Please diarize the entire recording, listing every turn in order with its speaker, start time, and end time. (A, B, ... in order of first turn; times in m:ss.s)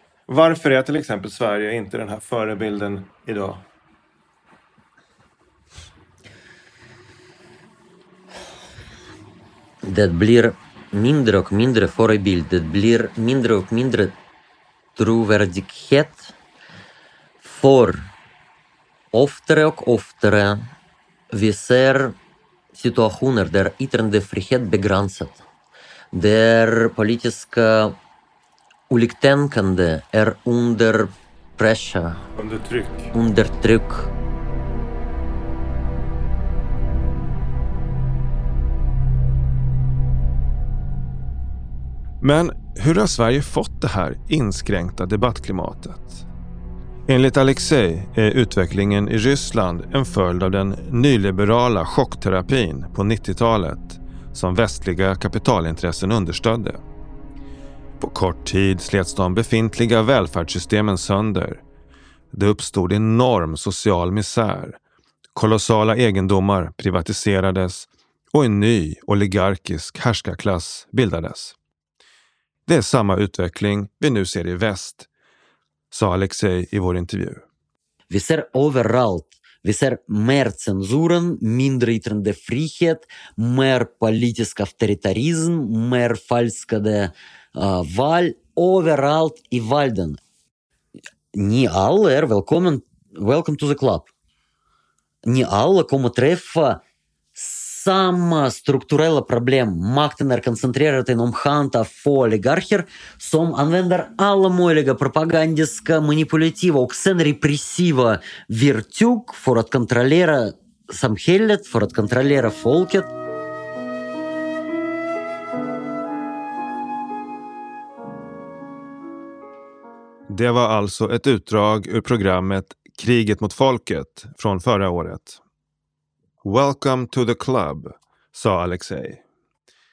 0:00.3-0:03.6 A
0:09.8-0:14.1 B
0:15.0-0:16.3 B
0:17.4-0:18.1 B
0:19.1-0:20.7 B
0:21.3-0:22.2 B
0:22.7-0:25.4 B
0:26.1-0:28.0 B
0:28.9-0:32.2 B
0:32.4-0:33.1 A
0:33.1-0:34.1 B
0:42.2-0:46.2 C
0:47.1-0:56.8 C
0:58.0-1:01.6 C
1:02.3-1:04.8 C
1:05.3-1:11.5 C
1:12.7-1:15.1 C
1:15.9-1:17.4 C
1:18.1-1:30.2 B
1:31.3-1:34.1 B
1:35.2-1:36.8 B
1:37.4-1:53.1 B
2:00.3-2:05.4 C
2:06.4-2:09.2 C